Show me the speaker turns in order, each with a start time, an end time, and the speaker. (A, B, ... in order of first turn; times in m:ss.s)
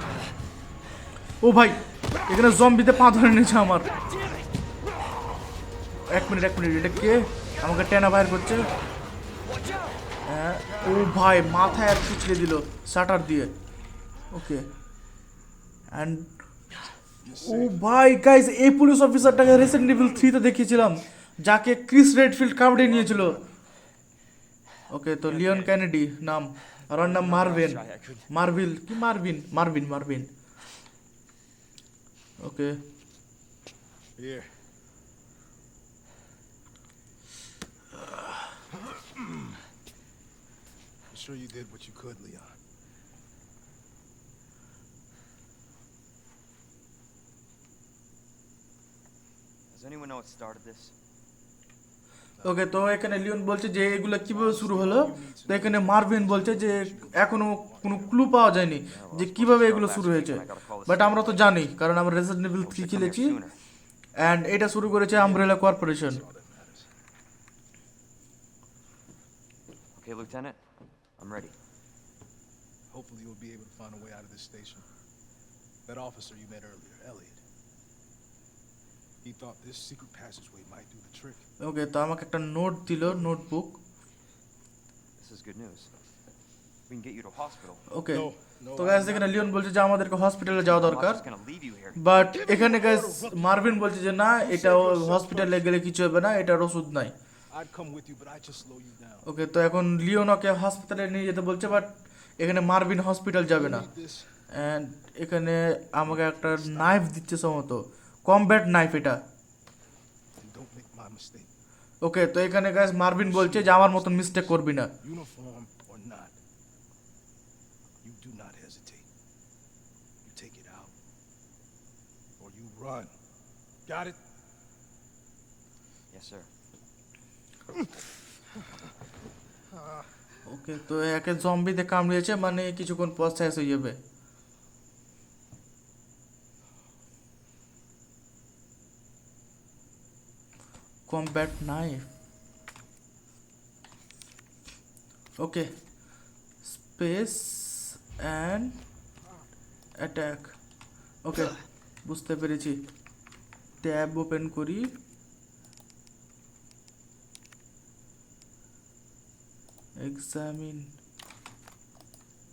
0:01.4-0:03.9 A
0:04.0-0:04.4 B
0:06.1-0:08.6 A
0:09.4-0:10.0 B
0:10.2-0:13.5 A
0:14.3-0:14.7 A
0:15.9-0:16.3 A
0:17.2-0:17.8 C
0:17.4-0:23.4 A
0:22.8-0:23.5 C
0:24.9-0:30.3 A
0:25.3-0:25.8 B
0:26.9-0:28.3 B
0:32.4-0:32.8 A
0:34.2-0:34.5 C
0:38.9-0:39.6 C
0:41.1-0:42.6 C
0:49.7-0:50.9 B
0:52.4-0:52.7 C
0:52.4-1:03.4 A
0:54.3-0:58.2 C
0:58.9-1:01.6 B
1:02.6-1:03.6 B
1:04.2-1:06.2 A
1:05.1-1:06.9 C
1:10.0-1:10.6 B
1:11.2-1:11.6 B
1:12.9-1:14.8 C
1:15.8-1:17.4 C
1:19.2-1:21.4 C
1:21.6-1:23.8 A
1:25.2-1:25.9 B
1:26.9-1:27.8 B
1:27.9-1:31.2 A
1:28.1-1:29.6 C
1:30.6-1:32.0 B
1:32.0-1:37.1 A
1:32.1-1:33.7 C
1:34.4-1:35.7 C
1:37.5-1:39.3 C
1:39.2-1:43.9 A
1:43.5-1:44.3 C
1:44.5-1:49.2 A
1:46.0-1:47.0 C
1:50.4-1:51.5 C
1:52.0-1:54.9 A
1:53.2-1:56.3 C
1:58.0-1:59.0 C
2:00.2-2:00.9 C
2:02.4-2:03.2 C
2:03.8-2:04.2 C
2:06.1-2:06.5 B
2:10.5-2:14.0 A
2:21.1-2:22.1 A
2:25.4-2:25.7 A
2:26.6-2:28.8 A
2:30.0-2:30.6 A
2:31.2-2:32.8 A
2:33.8-2:34.9 A
2:40.0-2:40.9 A